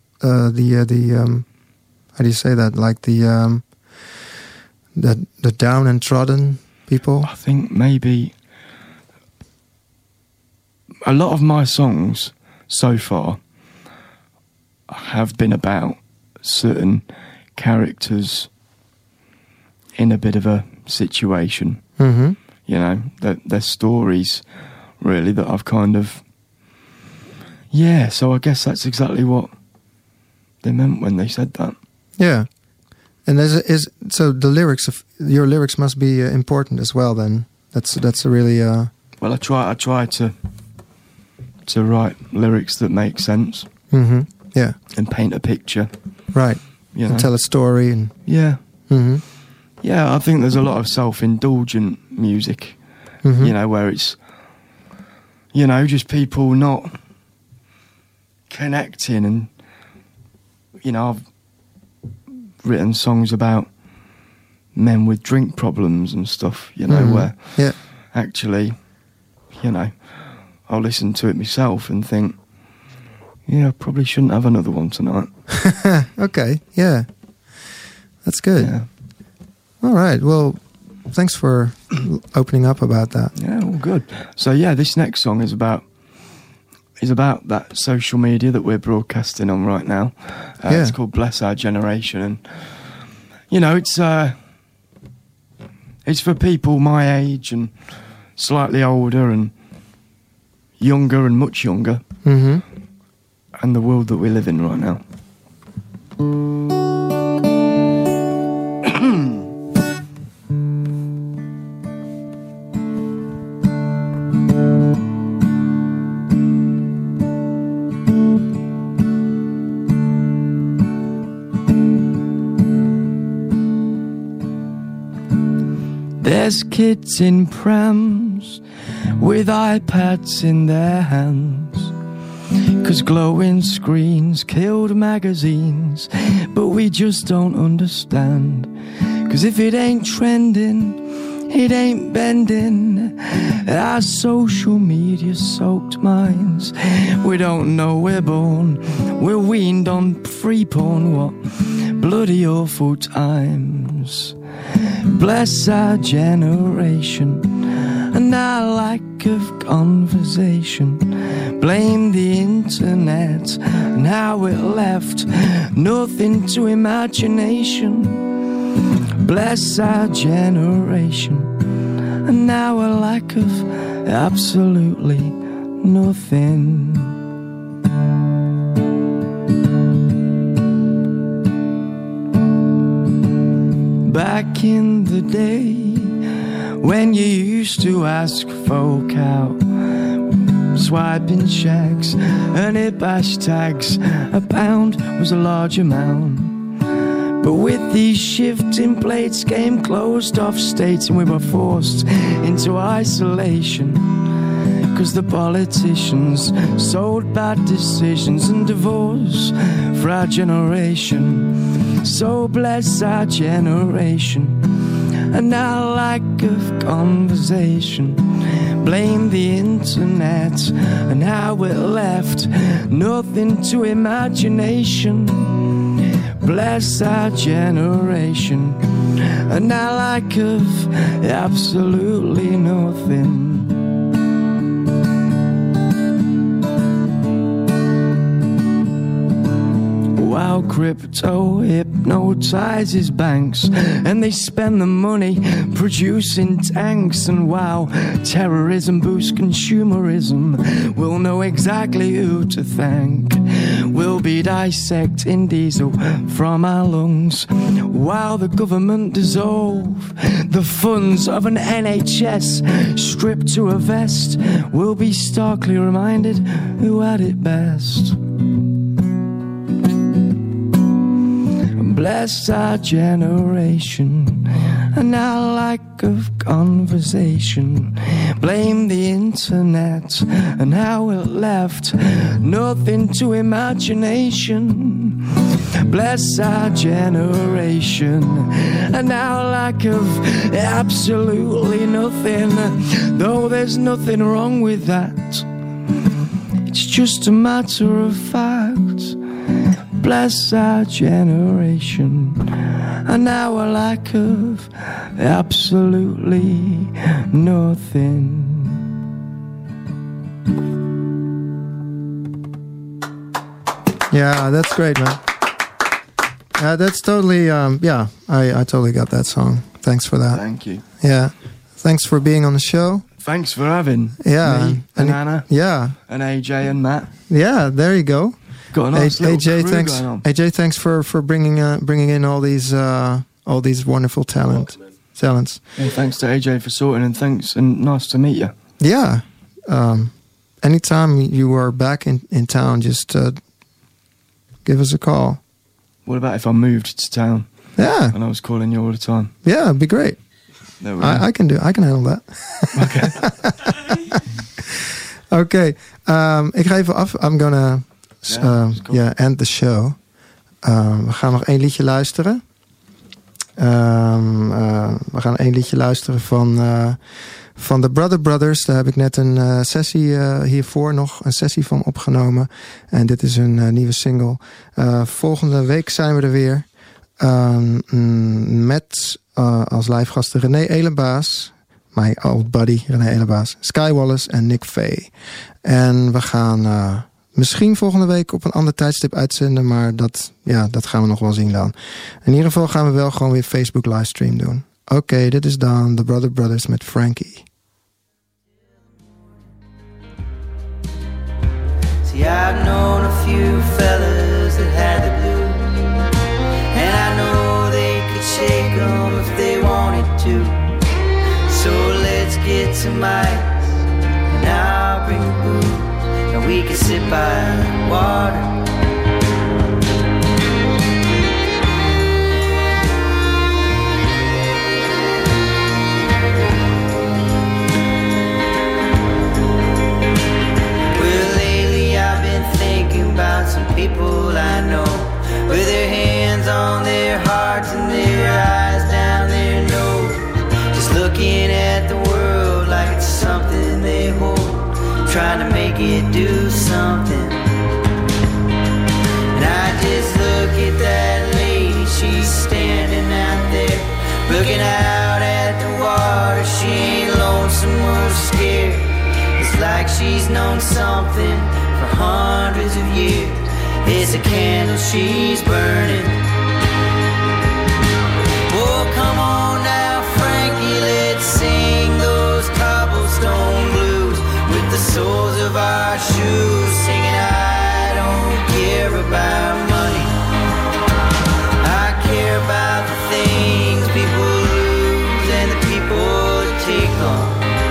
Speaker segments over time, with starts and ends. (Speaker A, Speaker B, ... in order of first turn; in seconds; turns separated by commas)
Speaker A: 0.2-1.5, Speaker A: 2.1-3.8, Speaker A: 5.0-7.3, Speaker B: 7.2-8.3, Speaker B: 11.0-13.4, Speaker B: 14.9-17.1, Speaker B: 17.6-18.5, Speaker B: 19.9-21.8, Speaker A: 22.0-22.4, Speaker B: 22.7-24.4, Speaker B: 25.0-26.2, Speaker B: 27.7-29.5, Speaker B: 30.6-31.8, Speaker A: 32.2-32.5, Speaker A: 33.2-38.9, Speaker B: 39.2-40.3, Speaker B: 41.6-43.7, Speaker A: 43.9-44.8, Speaker B: 44.9-45.9, Speaker A: 46.3-48.2, Speaker B: 46.9-47.3, Speaker B: 48.3-48.6, Speaker A: 48.9-49.2, Speaker B: 49.8-52.8, Speaker A: 53.2-53.5, Speaker B: 53.4-54.2, Speaker B: 55.5-57.0, Speaker B: 58.5-59.5, Speaker B: 60.8-61.2, Speaker B: 62.6-63.7, Speaker B: 64.7-68.8, Speaker A: 66.9-67.8, Speaker B: 69.5-70.0, Speaker B: 70.6-72.4, Speaker B: 73.5-75.3, Speaker A: 75.5-77.1, Speaker A: 78.2-78.7, Speaker B: 78.6-78.9, Speaker A: 79.8-83.3, Speaker B: 83.4-85.9, Speaker B: 87.0-92.5, Speaker A: 90.7-91.0, Speaker B: 93.5-94.4, Speaker B: 96.0-97.7, Speaker B: 98.4-99.5, Speaker B: 100.8-102.0, Speaker A: 102.2-102.6, Speaker B: 103.6-105.0, Speaker B: 108.8-109.4, Speaker B: 126.2-128.6, Speaker B: 129.2-131.9, Speaker B: 132.8-138.7, Speaker B: 139.2-154.3, Speaker B: 154.9-168.5, Speaker B: 169.2-171.6, Speaker B: 172.2-177.2, Speaker B: 184.0-196.8, Speaker B: 197.4-204.3, Speaker B: 204.9-225.9, Speaker B: 226.4-233.7, Speaker B: 240.1-268.2, Speaker B: 271.7-295.5, Speaker B: 296.7-299.2, Speaker B: 299.9-308.8, Speaker A: 314.1-315.2, Speaker A: 316.6-323.1, Speaker B: 320.3-320.8, Speaker B: 323.2-327.1, Speaker A: 324.2-326.0, Speaker A: 327.3-335.6, Speaker B: 328.7-330.2, Speaker B: 335.7-338.5, Speaker A: 338.8-343.4, Speaker A: 344.6-345.4, Speaker B: 346.1-347.5, Speaker A: 347.8-348.2, Speaker B: 348.1-349.3, Speaker A: 349.4-350.2, Speaker B: 350.8-351.3, Speaker A: 351.0-360.0, Speaker B: 352.8-353.2, Speaker B: 358.3-359.0, Speaker A: 360.6-362.4, Speaker A: 363.6-385.1, Speaker A: 385.6-397.4, Speaker C: 402.0-405.7, Speaker C: 406.7-410.7, Speaker C: 411.5-413.8, Speaker C: 414.3-418.5, Speaker C: 430.9-447.4, Speaker C: 449.3-466.2, Speaker C: 468.5-480.2, Speaker C: 481.6-487.4